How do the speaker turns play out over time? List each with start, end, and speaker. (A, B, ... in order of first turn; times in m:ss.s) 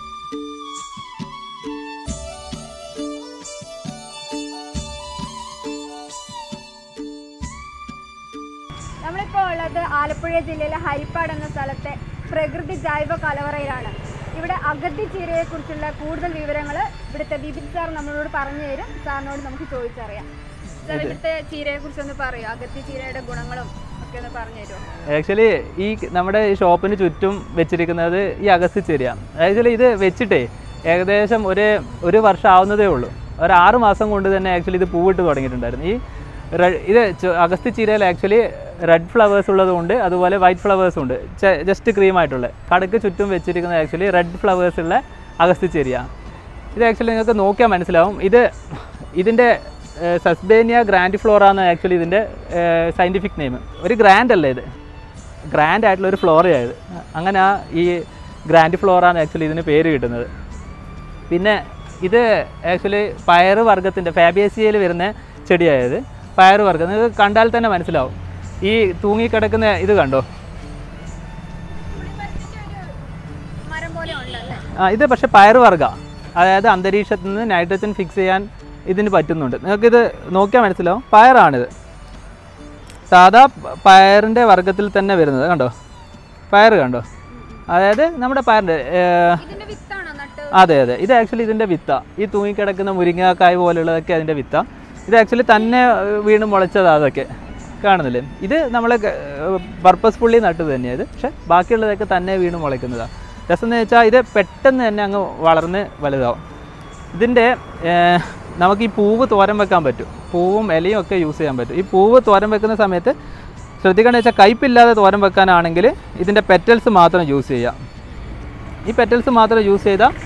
0:09.0-0:20.3 A
0:20.8-0:24.8 A
0:20.8-0:21.2 B
0:25.1-0:36.0 B
0:36.5-0:46.1 B
0:46.7-0:54.6 B
0:55.5-1:00.3 B
1:01.3-1:10.2 B
1:11.9-1:12.9 A
1:13.6-1:14.6 A
1:14.8-1:21.7 B
1:23.1-1:25.7 B
1:26.5-1:27.0 B
1:27.3-1:27.6 A
1:27.7-1:29.4 B
1:29.4-1:30.6 A
1:30.5-1:37.3 B
1:37.8-1:46.4 B
1:47.1-1:53.1 B
1:53.8-1:57.8 B
1:58.8-2:00.1 B